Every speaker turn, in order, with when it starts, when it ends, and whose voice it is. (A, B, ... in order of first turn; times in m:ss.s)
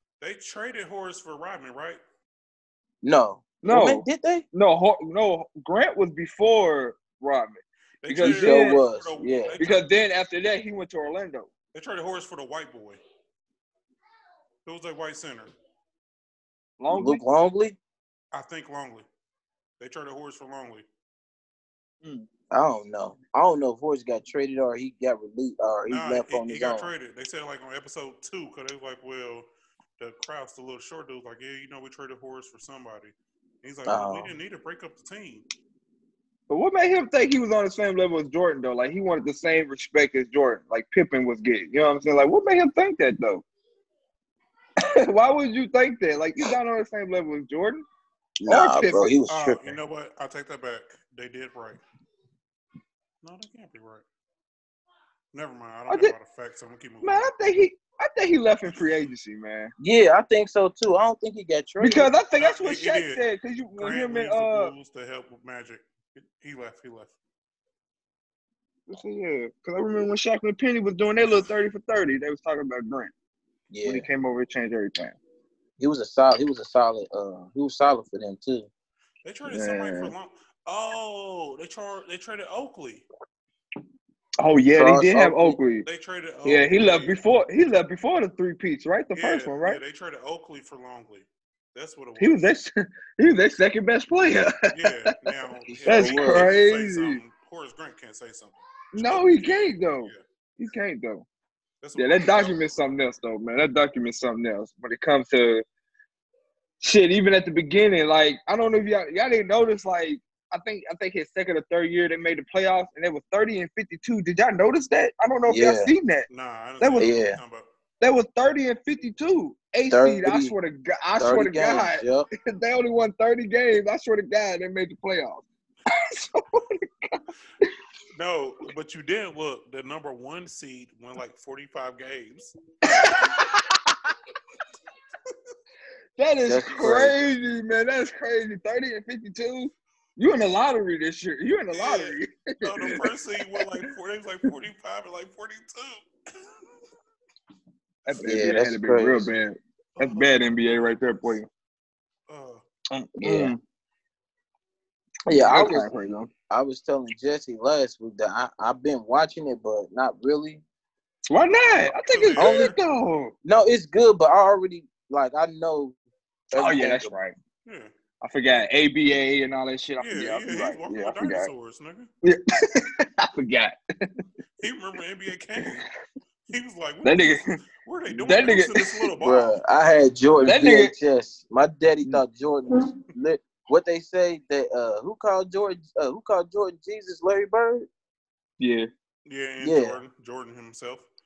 0:00.2-0:02.0 A
0:03.0-0:04.4 B
0:03.6-0:08.8 C
0:08.0-0:09.8 A
0:08.2-0:09.6 B
0:09.6-0:11.5 C
0:11.7-0:13.0 A
0:14.6-0:15.5 A
0:16.8-0:17.2 C
0:16.9-0:17.8 B
0:18.3-0:19.1 A
0:19.8-0:20.8 A
0:22.5-0:26.9 B
0:25.9-0:29.5 A
0:30.0-0:35.4 A
0:33.8-0:34.3 B
0:36.5-0:43.4 C
0:44.8-0:47.8 C
0:48.4-0:49.8 B
0:48.4-0:49.1 C
0:49.3-0:51.8 A
0:53.2-0:54.0 A
0:55.3-0:57.2 A
0:55.9-0:56.1 C
0:57.0-0:59.7 C
0:59.8-1:02.1 B
1:01.8-1:04.7 C
1:02.4-1:03.2 A
1:03.8-1:07.1 A
1:08.9-1:13.1 C
1:13.7-1:14.1 B
1:13.8-1:15.2 C
1:15.8-1:18.7 B
1:19.2-1:23.0 A
1:19.5-1:20.1 C
1:24.4-1:25.8 C
1:24.7-1:25.6 B
1:25.8-1:27.2 A
1:26.4-1:29.8 C
1:29.1-1:32.5 A
1:32.2-1:35.1 C
1:34.7-1:40.2 A
1:35.7-1:36.5 B
1:35.8-1:37.2 C
1:38.9-1:41.2 C
1:41.8-1:42.6 A
1:42.0-1:45.6 C
1:46.8-1:56.3 C
1:55.5-1:55.9 B
1:56.3-1:57.7 A
1:56.8-1:57.1 C
1:57.0-1:57.4 B
1:58.0-2:07.7 C
1:59.9-2:00.5 B
2:01.2-2:02.3 B
2:08.1-2:13.1 A
2:12.9-2:13.8 C
2:16.2-2:23.8 C
2:16.4-2:17.2 B
2:21.7-2:26.0 A
2:28.0-2:31.5 C
2:28.2-2:29.3 B
2:30.0-2:30.6 A
2:32.3-2:32.6 A
2:32.9-2:33.6 C
2:33.2-2:33.5 B
2:35.3-2:35.9 B
2:35.3-2:36.3 C
2:36.5-2:40.6 B
2:41.3-2:43.3 C
2:42.1-2:42.8 A
2:42.4-2:42.7 B
2:43.4-2:46.0 B
2:46.5-2:47.1 B
2:46.5-2:47.4 C
2:47.6-2:47.9 A
2:48.2-2:51.5 C
2:50.0-2:52.1 A
2:52.2-2:54.2 C
2:54.6-2:55.9 A
2:56.5-2:59.6 A
2:57.0-2:57.6 C
2:58.1-2:59.1 C
2:59.2-3:07.9 B
3:00.4-3:00.9 C
3:08.6-3:08.9 C
3:09.2-3:11.1 A
3:09.6-3:10.0 B